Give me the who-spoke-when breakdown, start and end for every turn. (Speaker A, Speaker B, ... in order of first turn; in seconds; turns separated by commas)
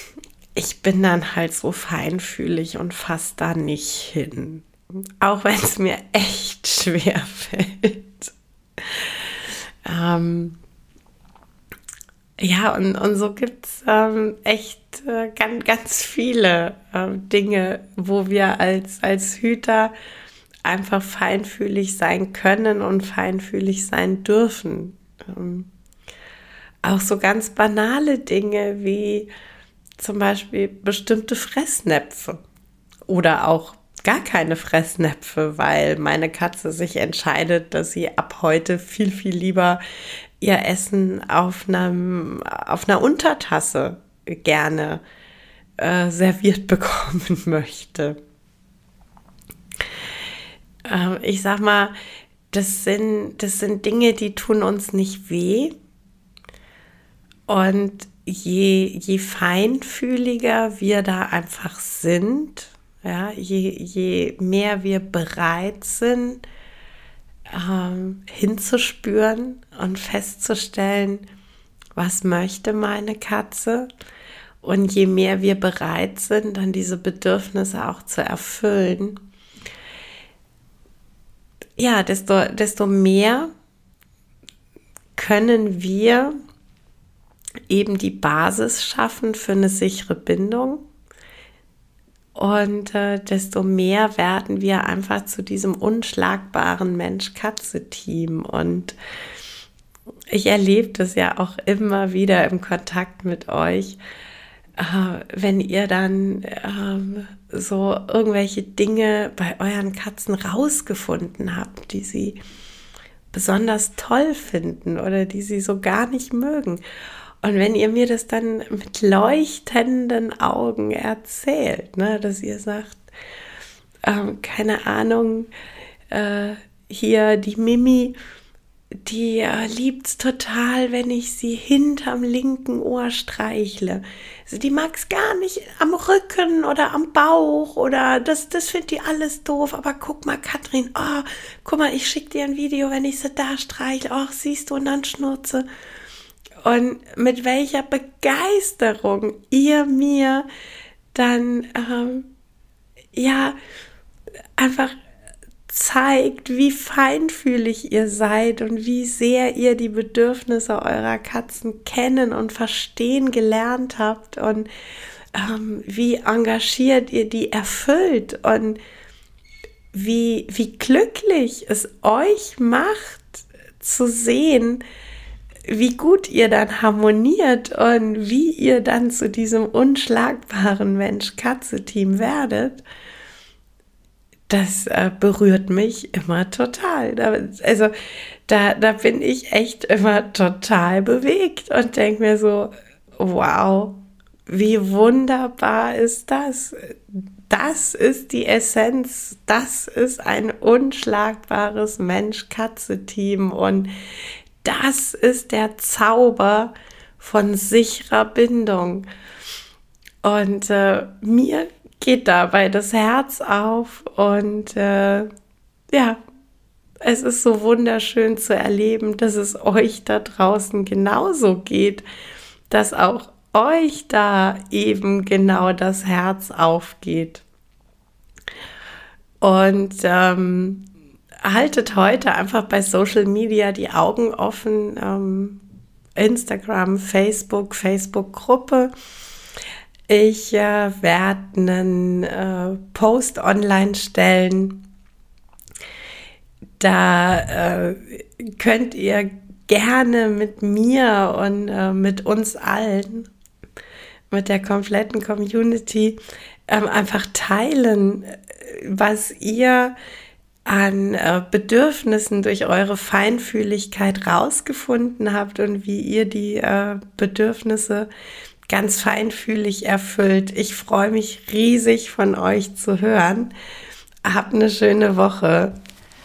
Speaker A: 0.6-4.7, Speaker A: 5.2-10.6, Speaker A: 12.4-19.9, Speaker A: 20.6-25.7, Speaker A: 26.8-29.3, Speaker A: 30.0-32.4, Speaker A: 33.1-39.8, Speaker A: 40.4-45.0, Speaker A: 45.8-48.2, Speaker A: 50.9-52.0, Speaker A: 52.5-55.8, Speaker A: 57.5-66.4, Speaker A: 67.5-71.3, Speaker A: 72.0-73.9, Speaker A: 74.6-79.2, Speaker A: 81.8-83.5, Speaker A: 85.2-86.4, Speaker A: 87.7-90.8, Speaker A: 92.3-99.0, Speaker A: 100.3-104.0, Speaker A: 104.8-112.4, Speaker A: 113.3-116.8, Speaker A: 117.4-123.0, Speaker A: 124.0-125.5, Speaker A: 126.1-128.2, Speaker A: 129.0-145.7, Speaker A: 146.6-150.5, Speaker A: 151.1-152.3, Speaker A: 153.1-153.6, Speaker A: 154.6-155.0, Speaker A: 155.7-164.7, Speaker A: 165.3-168.8, Speaker A: 169.9-174.8, Speaker A: 175.7-182.8, Speaker A: 184.5-187.9, Speaker A: 188.5-203.9, Speaker A: 204.6-209.1, Speaker A: 210.2-215.3, Speaker A: 215.9-216.2, Speaker A: 217.0-222.1, Speaker A: 222.7-227.4, Speaker A: 229.4-230.9, Speaker A: 231.4-235.6, Speaker A: 236.2-238.9, Speaker A: 240.1-244.9, Speaker A: 246.8-253.3, Speaker A: 254.3-259.9, Speaker A: 260.7-268.1, Speaker A: 268.7-273.5, Speaker A: 274.2-275.8